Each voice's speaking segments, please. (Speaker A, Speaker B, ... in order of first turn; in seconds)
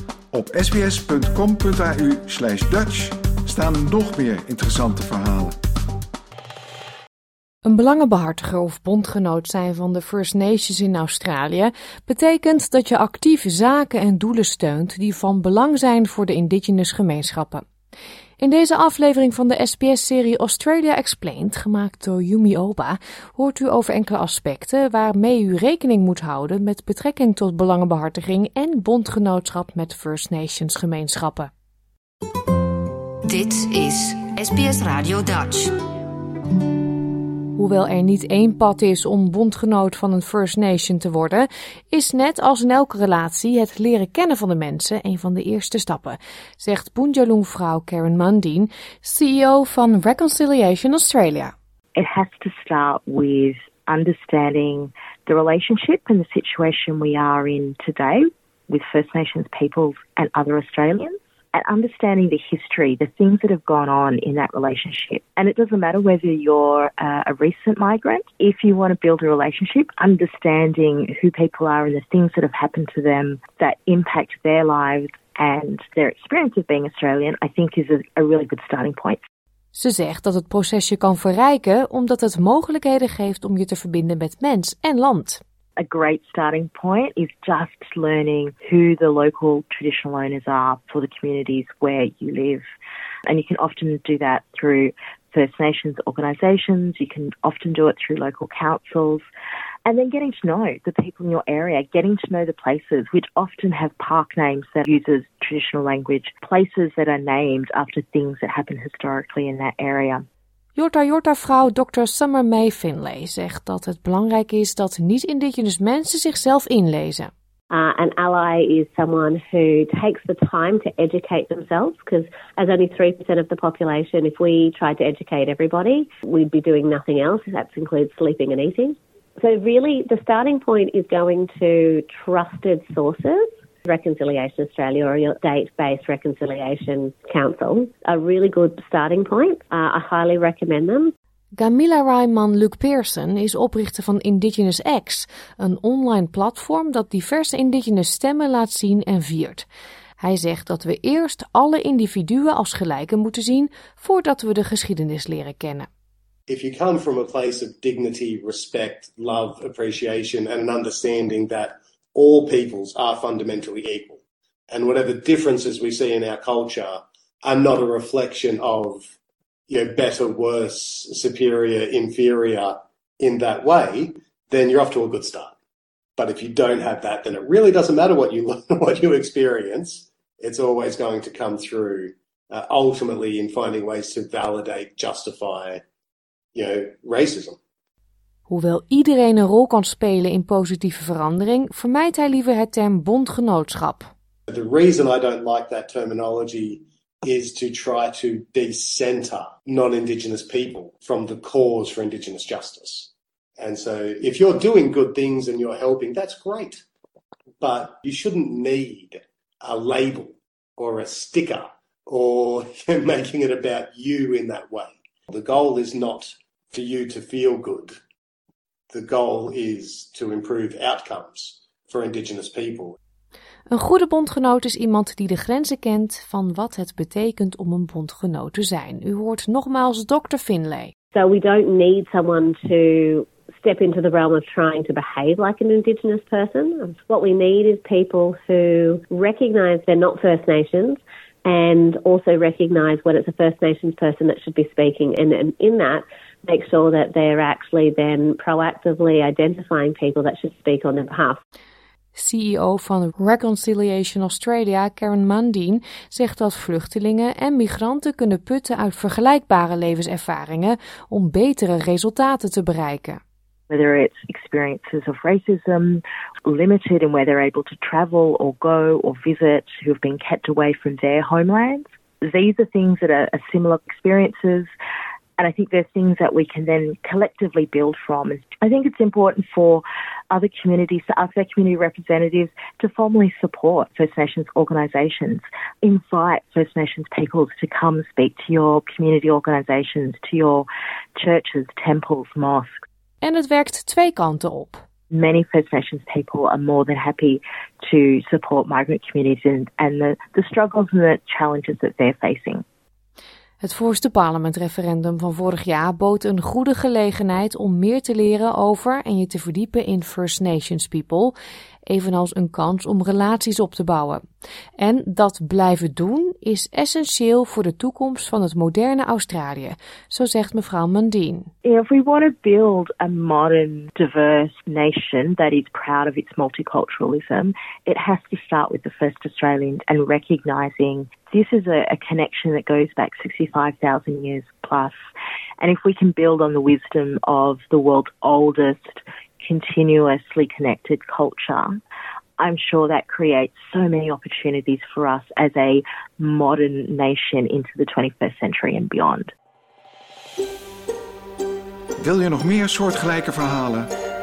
Speaker A: 0.3-5.6, 352.0-353.9
Speaker B: 7.6-17.7, 18.4-31.5, 37.5-51.5, 79.7-85.4, 110.8-117.3, 141.6-149.7, 150.2-155.9, 188.5-194.1, 223.7-230.9, 252.2-263.2, 293.2-294.8, 303.6-311.4, 311.9-314.2, 314.8-321.5
Speaker C: 33.2-35.8
Speaker D: 52.0-79.2, 85.8-92.7, 93.3-99.2, 99.9-110.3, 263.7-274.7, 275.4-292.9, 295.1-302.6, 321.6-335.0, 335.6-341.8, 342.4-349.3
Speaker E: 117.7-141.1, 231.1-251.4
Speaker F: 156.5-169.1, 169.7-175.5, 176.2-185.8, 186.5-187.6, 194.5-206.8, 207.6-218.0, 218.9-223.0